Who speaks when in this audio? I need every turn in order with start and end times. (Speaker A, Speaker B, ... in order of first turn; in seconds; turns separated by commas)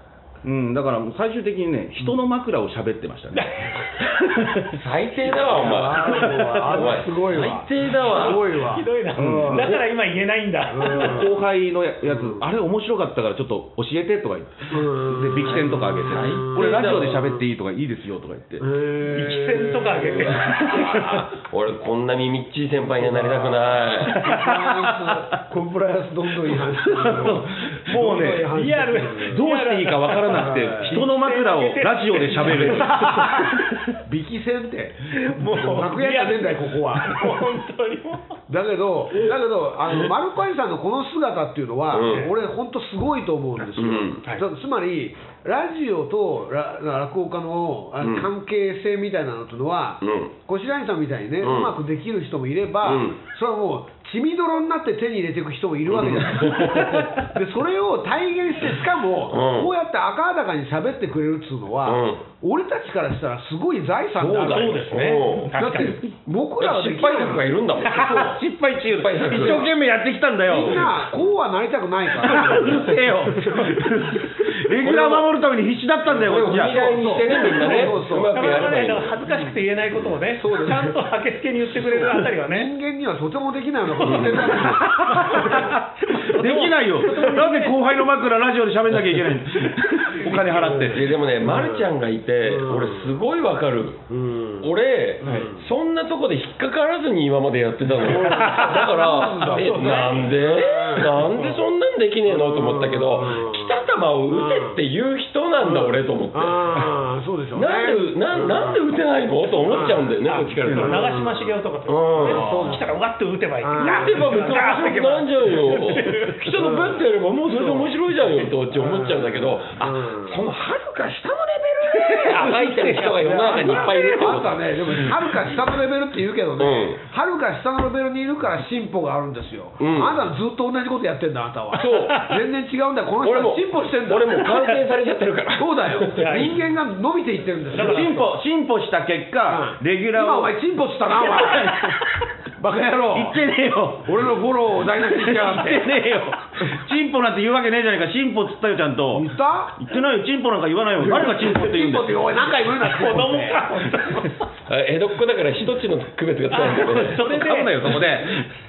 Speaker A: 0.4-4.7, Speaker B: 3.3-3.8, Speaker C: 4.7-8.7, Speaker D: 5.2-9.8, Speaker B: 8.1-11.2, Speaker A: 9.1-9.8, Speaker D: 10.7-11.4, Speaker A: 10.8-18.6, Speaker D: 12.1-12.4, Speaker D: 14.7-17.4, Speaker C: 15.8-17.2, Speaker D: 18.6-20.7, Speaker B: 19.1-20.9, Speaker C: 20.0-24.2, Speaker A: 20.4-21.2, Speaker D: 22.9-29.4, Speaker A: 24.1-25.4, Speaker A: 26.5-28.5, Speaker B: 27.6-33.6, Speaker A: 29.1-33.9, Speaker D: 30.3-31.0, Speaker D: 32.4-33.4, Speaker D: 34.0-37.5, Speaker B: 35.1-38.4, Speaker D: 38.5-64.9, Speaker C: 41.9-42.3, Speaker B: 42.0-42.3, Speaker C: 43.8-44.2, Speaker C: 48.0-48.3, Speaker C: 50.0-50.3, Speaker C: 51.4-51.7, Speaker C: 52.8-53.2, Speaker C: 55.9-57.1, Speaker C: 59.3-59.7, Speaker C: 61.8-62.2, Speaker A: 64.2-65.3, Speaker C: 64.2-65.5, Speaker B: 64.5-66.1, Speaker D: 65.5-67.5, Speaker C: 66.6-69.7, Speaker A: 67.8-71.1, Speaker C: 70.5-71.3, Speaker D: 70.5-73.8, Speaker A: 72.1-77.9, Speaker C: 74.8-75.3, Speaker C: 76.1-79.2, Speaker D: 76.9-79.6, Speaker B: 78.3-82.7, Speaker D: 80.2-81.0, Speaker D: 81.7-85.8, Speaker C: 84.0-84.6, Speaker B: 84.5-87.9, Speaker A: 84.6-91.2, Speaker D: 90.0-91.9, Speaker C: 90.9-94.1, Speaker D: 92.4-93.2, Speaker D: 94.1-94.7, Speaker C: 94.6-106.9, Speaker B: 95.2-95.5, Speaker D: 95.2-95.6, Speaker D: 98.0-101.5, Speaker B: 98.1-100.4, Speaker D: 102.3-104.8, Speaker D: 105.6-108.8, Speaker C: 107.5-111.2, Speaker D: 109.7-111.5, Speaker B: 110.3-116.4, Speaker A: 110.6-111.0, Speaker C: 111.9-112.6, Speaker D: 112.2-113.0, Speaker A: 112.3-112.7, Speaker D: 113.6-114.3, Speaker C: 113.8-125.6, Speaker D: 116.4-120.4, Speaker D: 121.9-134.7, Speaker C: 126.6-127.0, Speaker C: 129.8-130.2, Speaker C: 131.7-132.3, Speaker B: 131.8-132.4, Speaker C: 133.2-136.6, Speaker D: 135.6-138.2, Speaker B: 136.1-136.6, Speaker B: 137.7-138.3, Speaker A: 137.7-140.6, Speaker D: 139.5-143.4, Speaker A: 141.1-142.0, Speaker A: 143.1-152.3, Speaker D: 144.1-145.9, Speaker D: 149.1-149.8, Speaker D: 151.0-153.9, Speaker B: 152.8-154.5, Speaker C: 154.7-157.2, Speaker B: 156.5-157.9, Speaker A: 156.8-158.5